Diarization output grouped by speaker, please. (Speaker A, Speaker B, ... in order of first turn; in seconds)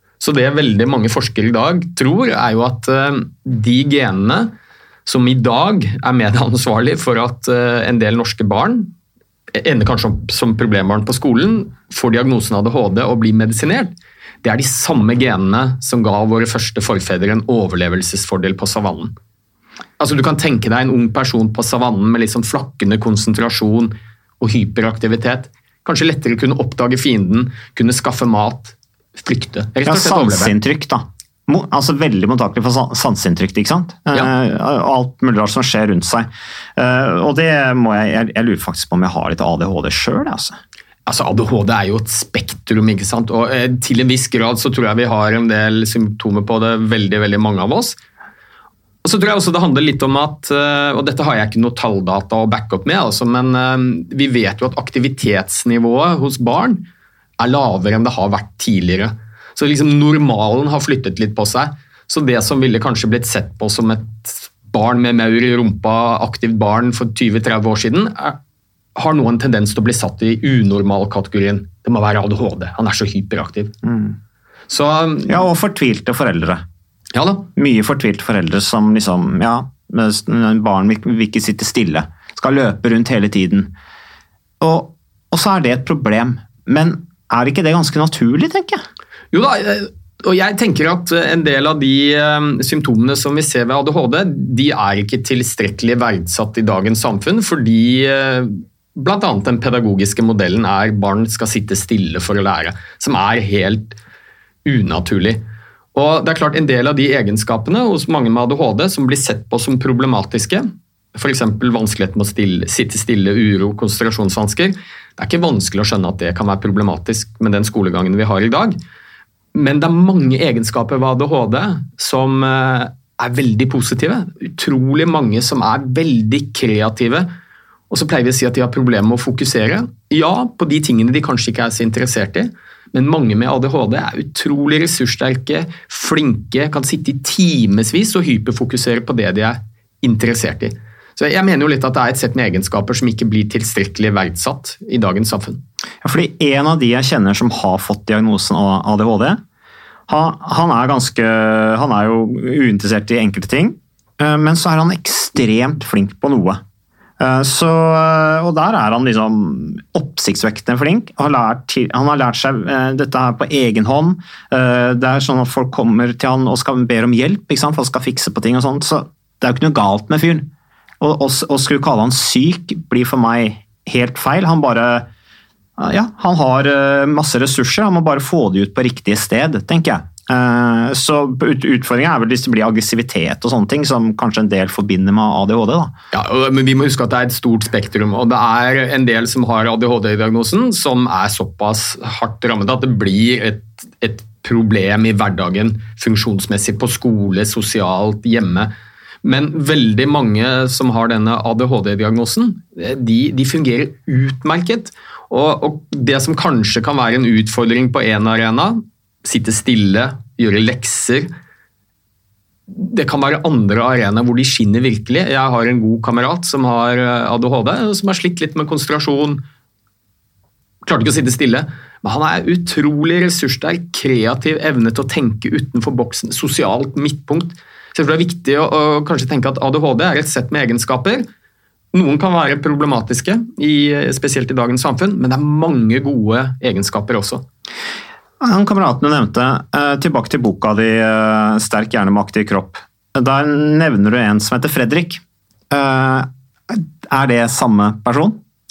Speaker A: 0.2-4.5, 5.1-8.9, 9.5-19.1, 20.0-30.6, 41.1-48.0, 49.0-56.9, 57.4-68.4, 69.0-73.7, 74.7-75.5, 77.1-77.5, 89.3-104.0, 104.7-105.4, 105.9-118.8, 119.5-127.3, 127.9-145.6, 186.1-198.7, 199.2-211.3, 212.7-219.4, 220.8-231.2, 231.9-237.4
Speaker B: 29.9-40.6, 73.8-74.2, 75.3-76.6, 77.6-83.7, 84.6-88.8, 146.0-149.4, 150.1-156.6, 157.2-170.5, 171.0-175.1, 175.8-185.9, 238.4-248.4